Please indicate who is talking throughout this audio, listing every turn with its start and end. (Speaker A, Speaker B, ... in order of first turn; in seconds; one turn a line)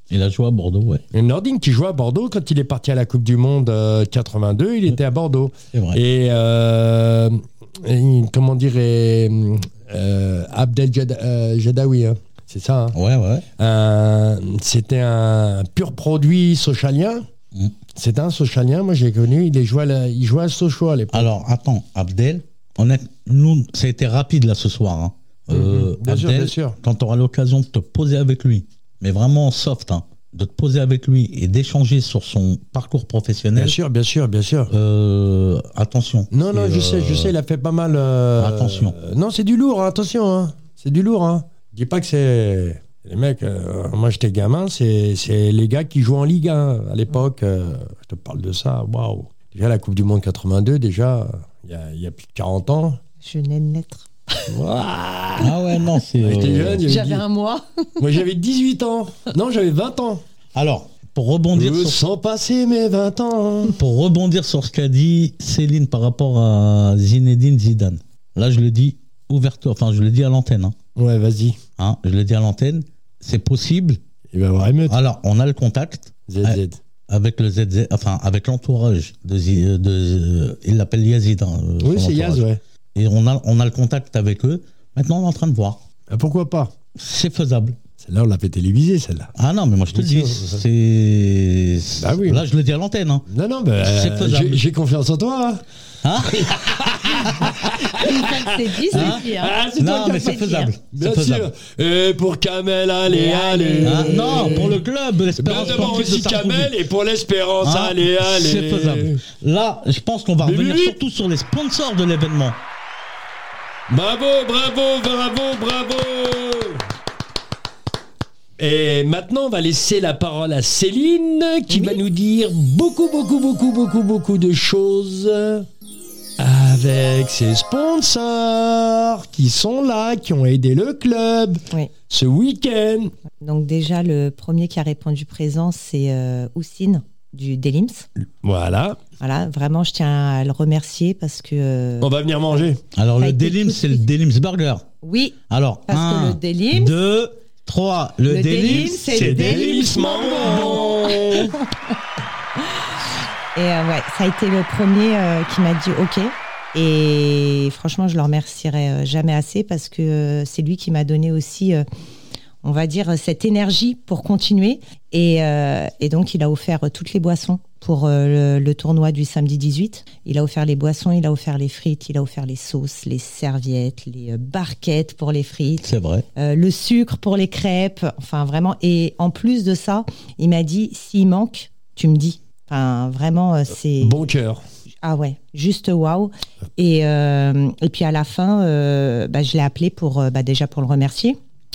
Speaker A: 0.1-1.0
Speaker B: 1.1-13.0
Speaker A: 5.7-6.0
Speaker A: 12.9-13.5
Speaker B: 13.6-17.3
Speaker B: 17.9-21.3
Speaker A: 21.1-33.8
Speaker B: 25.5-26.8
Speaker B: 33.6-34.7
Speaker A: 34.7-37.4
Speaker B: 36.3-53.0
Speaker A: 38.4-39.0
Speaker C: 53.2-54.5
Speaker B: 54.5-55.5
Speaker A: 55.4-56.9
Speaker B: 56.2-57.2
Speaker C: 56.9-58.2
Speaker B: 58.0-60.2
Speaker A: 60.5-62.0
Speaker B: 61.5-63.8
Speaker A: 63.8-70.8
Speaker B: 71.0-71.6
Speaker A: 71.8-74.0
Speaker B: 74.3-75.0
Speaker A: 74.9-85.8
Speaker B: 76.3-76.8
Speaker B: 81.8-82.6
Speaker B: 86.1-86.7
Speaker A: 87.0-87.8
Speaker B: 88.0-89.3
Speaker A: 89.4-93.3
Speaker B: 89.9-90.6
Speaker B: 92.0-92.4
Speaker B: 93.3-95.6
Speaker A: 93.8-94.6
Speaker A: 96.0-97.8
Speaker B: 96.3-104.8
Speaker C: 97.9-99.6
Speaker A: 98.9-101.5
Speaker C: 100.1-100.7
Speaker C: 103.1-104.8
Speaker A: 103.8-106.7
Speaker B: 105.4-109.2
Speaker C: 105.5-106.0
Speaker A: 107.6-112.6
Speaker B: 110.4-111.0
Speaker B: 113.9-116.8
Speaker B: 118.6-125.7
Speaker C: 121.7-122.0
Speaker B: 126.4-133.1
Speaker C: 133.4-138.1
Speaker B: 138.4-139.0
Speaker C: 139.2-142.1
Speaker B: 142.0-142.8
Speaker A: 142.9-144.9
Speaker C: 143.2-144.1
Speaker C: 145.0-147.0
Speaker A: 145.5-150.8
Speaker C: 148.3-151.7
Speaker B: 148.7-151.6
Speaker C: 153.6-161.8
Speaker C: 162.6-184.3
Speaker A: 175.8-176.3
Speaker B: 184.0-184.6
Speaker C: 185.0-191.4